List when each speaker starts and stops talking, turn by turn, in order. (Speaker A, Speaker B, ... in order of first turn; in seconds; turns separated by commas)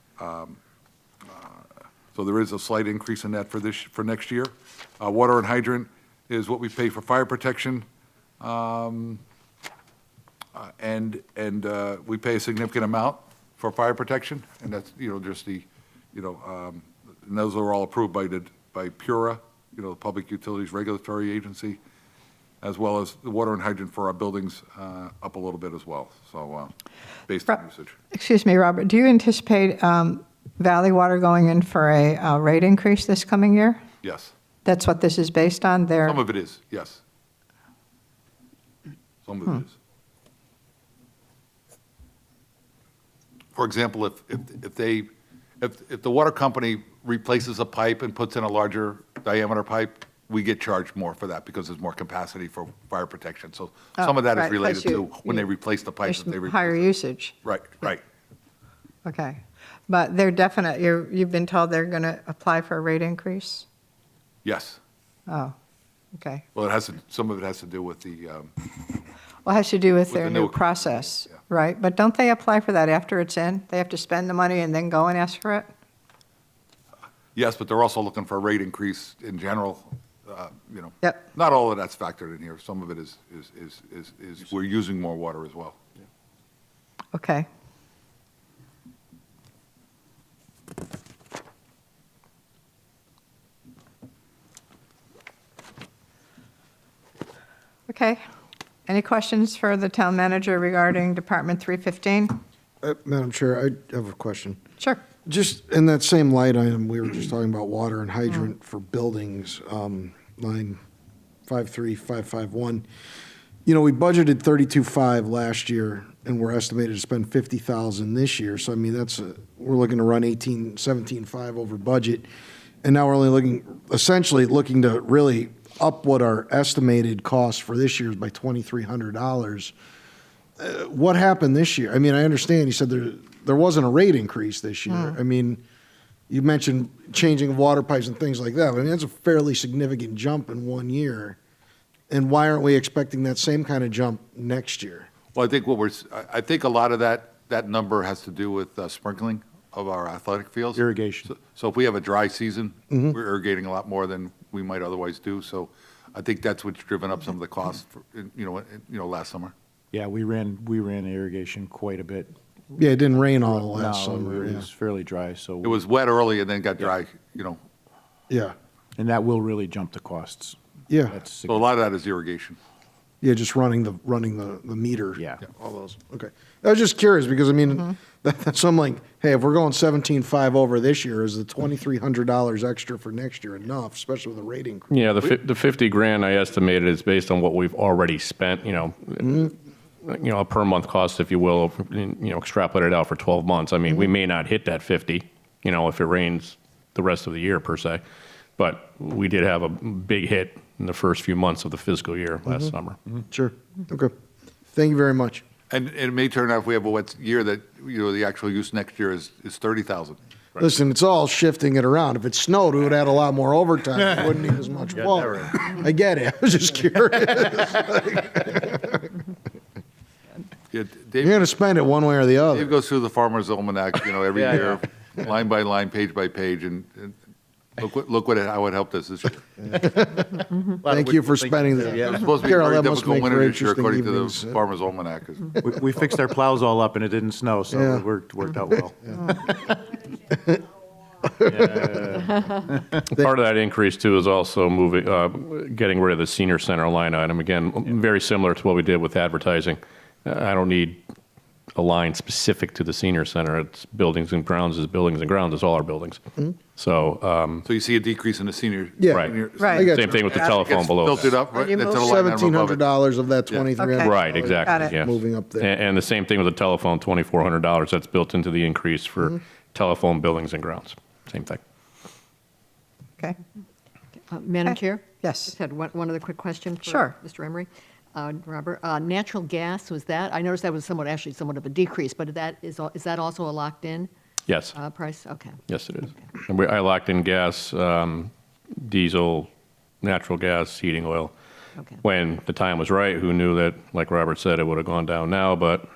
Speaker A: 0.2-0.6, Speaker A: 2.1-7.8, Speaker A: 8.4-9.2, Speaker A: 10.5-21.8, Speaker A: 22.6-26.7, Speaker A: 27.3-27.9, Speaker B: 28.1-33.8, Speaker A: 34.0-34.3, Speaker B: 34.6-36.2, Speaker A: 36.0-37.0, Speaker A: 39.2-39.7, Speaker A: 43.5-45.1, Speaker A: 45.6-58.0, Speaker B: 54.0-55.4, Speaker B: 56.0-57.4, Speaker B: 59.0-63.6, Speaker A: 64.4-64.8, Speaker B: 65.3-65.5, Speaker B: 66.1-66.4, Speaker A: 66.5-68.7, Speaker B: 69.4-75.7, Speaker A: 70.1-71.4, Speaker A: 77.3-85.8, Speaker B: 87.1-87.5, Speaker B: 97.9-98.2, Speaker B: 98.8-102.4, Speaker C: 102.8-104.6, Speaker C: 105.2-110.8, Speaker C: 111.5-112.8, Speaker C: 113.7-122.3, Speaker C: 122.8-129.7, Speaker C: 130.6-135.6, Speaker C: 136.3-141.4, Speaker C: 142.1-145.1, Speaker A: 145.3-159.5, Speaker D: 150.7-151.3, Speaker C: 152.9-153.2, Speaker D: 159.9-162.3, Speaker C: 162.7-164.7, Speaker D: 163.6-165.8, Speaker A: 165.6-167.6, Speaker D: 168.9-171.7, Speaker C: 170.9-171.2, Speaker A: 171.4-172.6, Speaker C: 173.2-184.9, Speaker D: 175.1-175.4, Speaker E: 184.9-198.0, Speaker E: 198.6-203.0, Speaker C: 202.4-202.7, Speaker C: 203.3-204.1, Speaker C: 204.7-205.4, Speaker A: 205.7-210.2, Speaker C: 210.6-219.1, Speaker D: 214.9-215.7, Speaker A: 220.7-221.5, Speaker C: 221.2-222.7, Speaker A: 222.5-227.2, Speaker D: 224.4-224.7, Speaker A: 227.8-229.4, Speaker C: 229.6-234.6, Speaker D: 230.8-232.3, Speaker A: 232.1-235.6, Speaker D: 235.6-239.3, Speaker C: 237.7-238.1, Speaker C: 239.2-240.6, Speaker C: 241.2-241.9, Speaker D: 241.4-242.8, Speaker E: 243.1-251.0, Speaker E: 251.7-256.2, Speaker E: 256.7-257.7, Speaker A: 257.6-262.9, Speaker C: 259.0-260.4, Speaker E: 259.1-261.4, Speaker B: 259.6-259.9, Speaker B: 261.5-262.2, Speaker C: 261.9-265.7, Speaker B: 263.8-264.9, Speaker E: 264.0-271.6, Speaker F: 274.3-284.1, Speaker B: 274.6-275.5, Speaker B: 276.8-277.1, Speaker E: 284.5-284.8, Speaker F: 284.8-285.5, Speaker E: 285.7-289.5, Speaker E: 290.0-291.3, Speaker E: 292.0-295.9